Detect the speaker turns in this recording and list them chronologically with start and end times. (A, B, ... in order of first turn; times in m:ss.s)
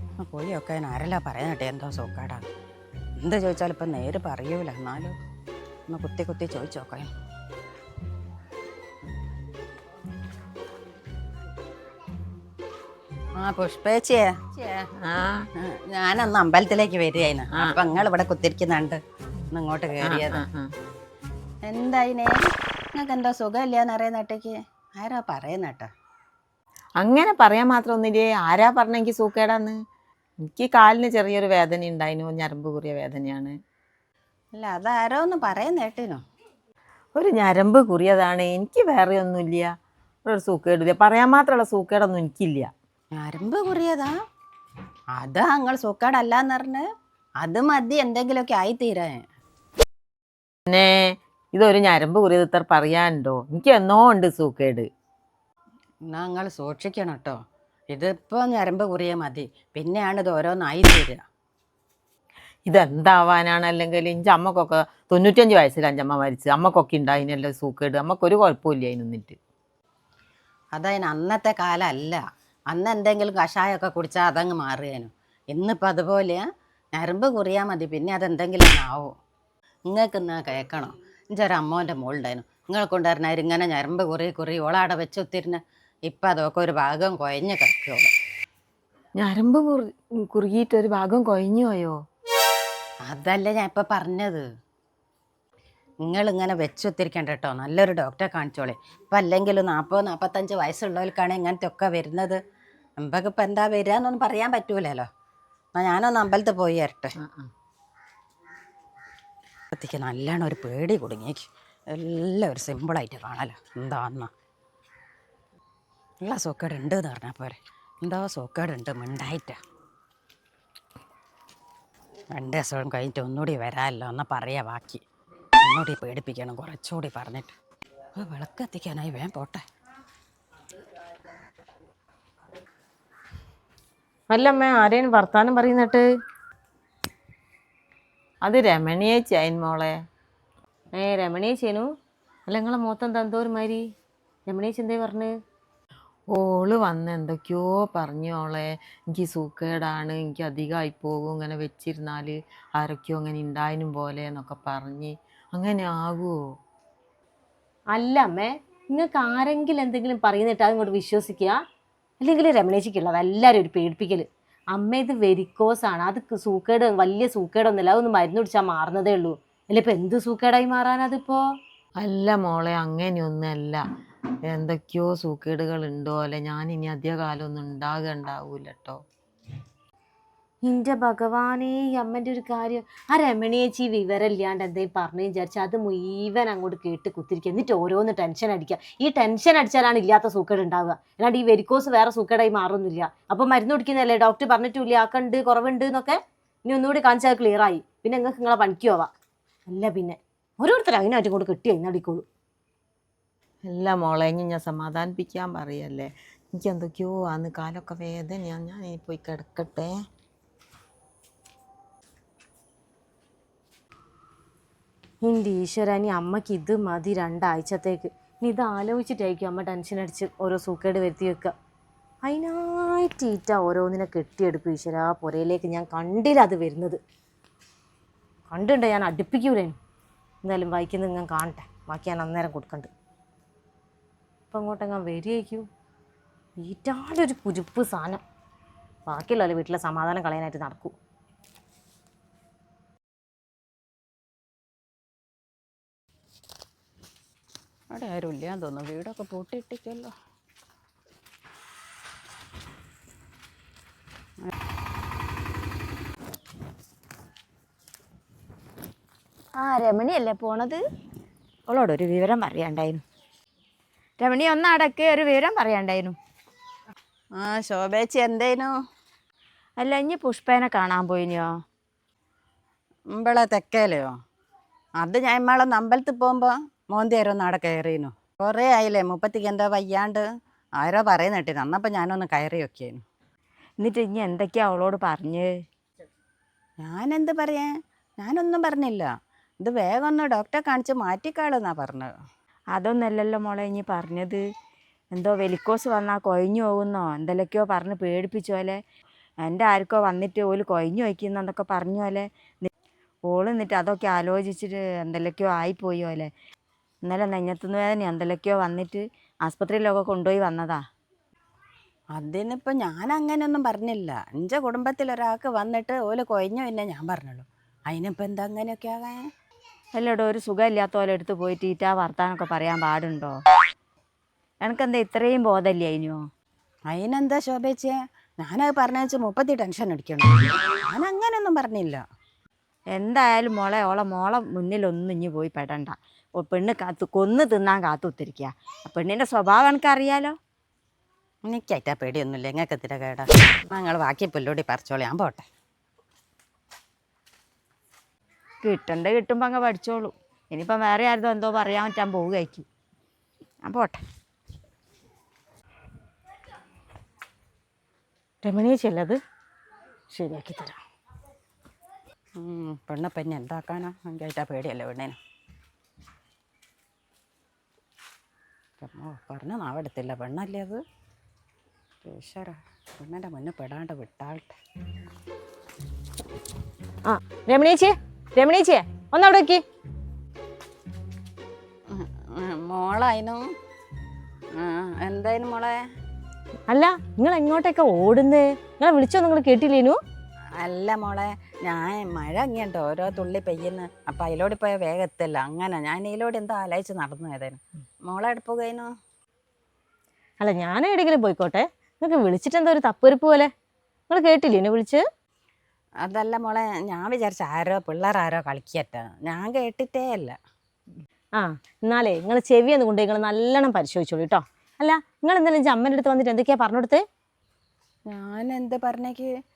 0:00.2-0:02.5 A
0:03.2-0:05.2 A
0:05.9-0:07.1 A
0:13.4-0:14.9 A
0:15.0-0:15.4 B
0:15.6-0:19.0 A
0:17.5-0:17.8 B
0:19.5-0:20.4 A
0:20.0-0:20.7 B
0:21.7-0:25.9 A
0:27.0-0:29.8 B
0:30.4-0:33.5 B
0:34.6-0:36.2 A
0:37.2-0:39.7 B
0:40.3-0:42.7 B
0:43.2-0:44.1 A
0:45.2-0:46.8 A
0:47.4-0:49.2 A
0:51.5-0:54.9 B
0:56.1-0:57.4 A
0:57.9-1:01.2 A
1:02.7-1:09.4 B
1:10.8-1:12.2 A
1:12.7-1:16.4 A
1:17.0-1:19.1 A
1:19.9-1:28.1 A
1:29.2-1:32.0 B
1:33.0-1:34.4 A
1:36.0-1:42.4 A
1:43.0-1:45.1 A
1:45.8-1:47.2 A
1:47.2-1:47.5 B
1:49.7-1:54.3 A
1:56.2-1:59.6 A
2:02.3-2:05.0 A
2:05.6-2:07.6 A
2:08.2-2:09.6 A
2:14.3-2:16.0 C
2:18.4-2:20.0 B
2:21.0-2:21.9 C
2:22.5-2:23.8 C
2:24.5-2:25.3 C
2:26.3-2:36.3 B
2:37.9-2:41.6 C
2:42.2-2:51.4 C
2:52.0-2:53.8 B
2:54.5-2:59.0 B
3:00.7-3:19.1 C
3:19.7-3:22.3 C
3:23.7-3:29.9 B
3:35.2-3:41.5 C
3:42.2-3:47.0 C
3:48.5-3:49.8 C
3:50.4-3:52.9 C
3:54.5-3:55.6 C
3:56.6-3:58.2 C
3:59.1-4:00.9 C
4:07.9-4:10.1 A
4:19.6-4:20.8 D
4:21.7-4:23.0 D
4:24.2-4:26.2 D
4:27.4-4:28.7 A
4:29.8-4:31.5 D
4:33.1-4:34.1 A
4:35.0-4:40.2 A
4:40.8-4:43.0 A
4:43.8-4:45.5 D
4:46.8-4:47.7 A
4:48.2-4:49.1 A
4:49.6-4:52.1 A
4:52.7-4:54.4 D
4:55.1-4:58.8 D
4:59.4-5:02.7 D
5:03.3-5:06.3 D
5:07.0-5:10.8 D
5:12.2-5:19.2 A
5:20.0-5:23.4 D
5:24.6-5:26.2 D
5:26.9-5:32.0 A
5:33.0-5:40.4 D
5:41.5-5:45.5 A
5:48.6-5:52.7 D
5:53.6-5:54.0 D
5:58.4-5:59.2 C
6:00.1-6:00.8 C
6:02.4-6:05.2 A
6:08.8-6:10.8 A
6:12.0-6:14.6 A
6:17.1-6:19.6 C
6:21.9-6:23.4 A
6:24.6-6:25.8 A
6:26.7-6:30.0 C
6:30.6-6:38.9 A
6:40.4-6:43.5 C
6:44.1-6:45.0 C
6:46.0-6:50.4 A
6:51.4-6:57.0 C
6:58.1-6:59.3 A